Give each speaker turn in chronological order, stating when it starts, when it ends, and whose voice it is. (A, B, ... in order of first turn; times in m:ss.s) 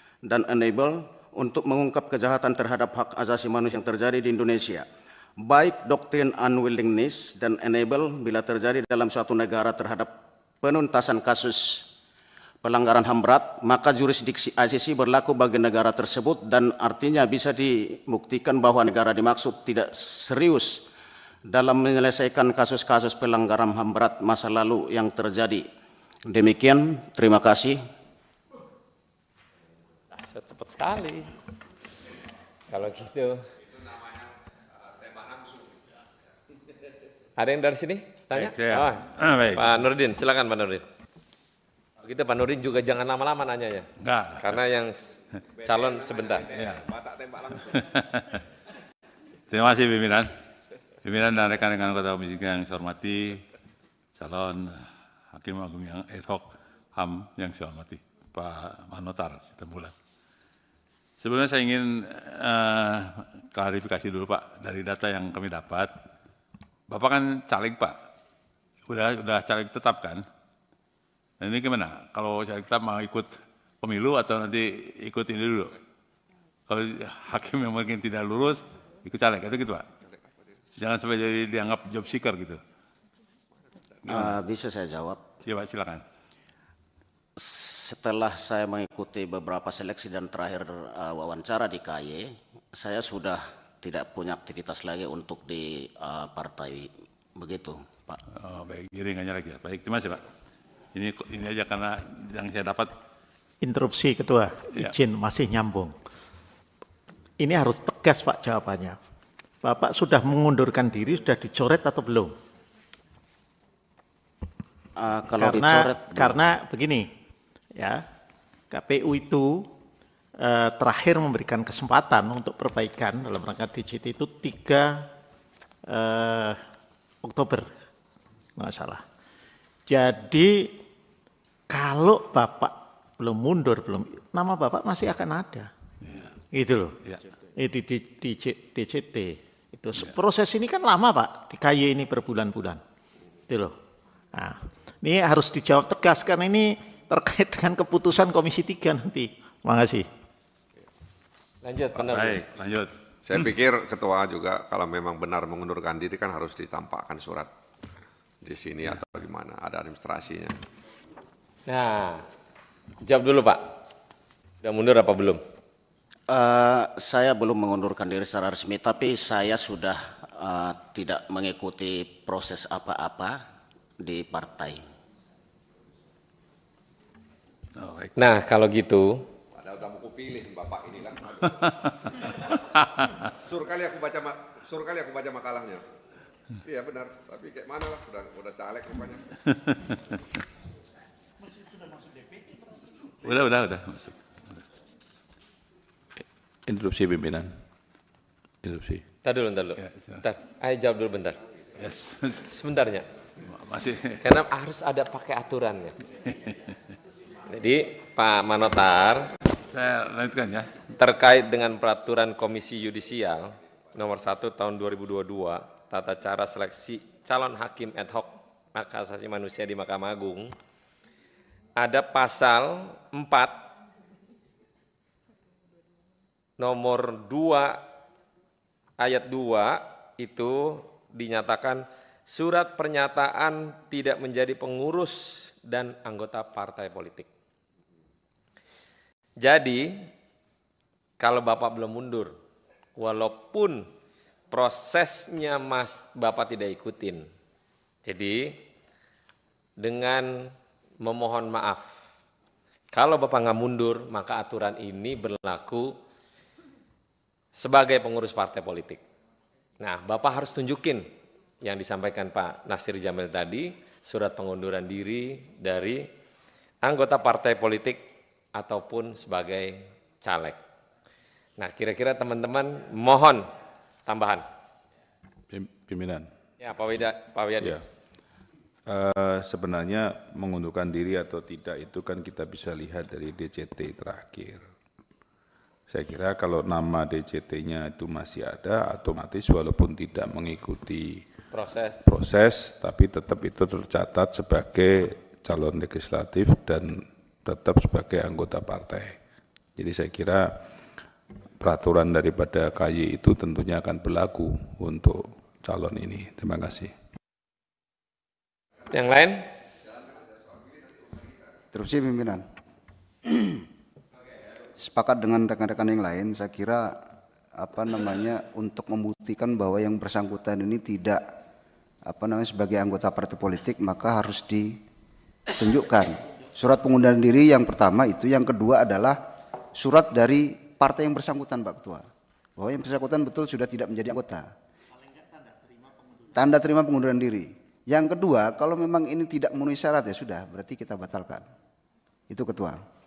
0:00.2-0:04.9 A
0:05.4-0:10.1 A
0:10.6-0:11.9 A
0:12.6-0:20.9 A
0:21.4-0:25.6 A
0:26.2-0:27.8 A
0:30.1-0:31.3 B
0:32.7-0:33.4 B
0:34.8-0:35.8 C
0:37.4-0:40.8 B
0:38.3-0:39.9 D
0:42.0-0:46.4 B
0:44.0-0:44.6 D
0:45.5-0:47.8 C
0:46.5-0:46.9 D
0:47.7-0:48.4 D
0:49.5-0:50.3 D
0:51.0-0:53.4 D
0:54.2-0:54.8 D
0:55.3-0:59.9 D
1:01.2-1:05.9 D
1:06.9-1:07.9 D
1:08.9-1:10.2 D
1:11.4-1:13.3 D
1:13.8-1:15.7 D
1:16.7-1:19.8 D
1:20.8-1:22.6 D
1:24.1-1:25.2 A
1:24.1-1:24.4 D
1:25.4-1:26.0 D
1:27.4-1:38.2 A
1:38.3-1:40.2 D
1:40.9-1:42.9 D
1:43.6-1:45.9 E
1:47.4-1:49.0 E
1:49.6-1:52.3 E
1:55.0-1:56.4 A
1:55.4-1:57.0 E
1:57.8-1:58.0 E
1:58.7-1:59.7 E
2:00.4-2:05.1 E
2:05.9-2:06.6 E
2:07.2-2:07.6 E
2:08.6-2:09.0 E
2:09.9-2:10.7 E
2:11.7-2:15.7 E
2:16.0-2:16.3 D
2:16.5-2:17.0 E
2:17.6-2:22.8 E
2:23.5-2:23.7 E
2:24.3-2:30.1 E
2:31.6-2:32.3 B
2:32.0-2:32.9 D
2:33.2-2:37.5 C
2:38.4-2:40.6 C
2:41.6-2:42.2 B
2:43.0-2:43.8 B
2:44.6-2:45.4 B
2:46.3-2:53.4 A
2:54.0-2:54.8 A
2:57.8-2:58.1 D
2:58.2-2:59.2 B
2:59.5-3:01.7 C
3:03.4-3:05.8 C
3:06.6-3:09.2 C
3:13.1-3:14.2 D
3:16.7-3:17.5 F
3:18.6-3:19.0 F
3:19.2-3:21.4 B
3:19.8-3:20.2 D
3:21.8-3:22.5 D
3:22.5-3:23.1 B
3:23.4-3:24.2 D
3:24.2-3:26.0 B
3:27.5-3:29.3 B
3:29.4-3:30.8 D
3:30.9-3:40.5 B
3:41.8-3:43.6 B
3:46.6-3:47.8 B
3:49.0-3:57.3 B
3:59.4-4:00.1 B
4:01.2-4:02.3 B
4:03.0-4:03.9 B
4:04.5-4:07.3 B
4:08.0-4:08.6 B
4:09.8-4:11.9 B
4:12.9-4:16.0 B
4:17.5-4:19.0 B
4:19.8-4:21.0 B
4:21.6-4:26.1 B
4:26.8-4:30.6 B
4:31.6-4:33.5 B
4:34.0-4:34.4 B
4:35.5-4:36.3 F
4:36.6-4:37.7 B
4:38.9-4:44.6 F
4:45.9-4:51.2 F
4:51.5-4:52.0 B
4:52.0-4:59.1 F
4:59.8-5:00.4 F
5:01.6-5:06.9 F
5:08.9-5:09.4 B
5:09.9-5:11.4 C
5:11.7-5:12.4 G
5:13.2-5:13.6 G
5:14.8-5:17.0 G
5:17.6-5:21.2 G
5:22.0-5:24.8 G
5:25.6-5:29.2 G
5:29.8-5:32.0 G
5:32.6-5:34.5 G
5:35.4-5:35.8 E
5:36.3-5:41.4 G
5:42.3-5:42.8 G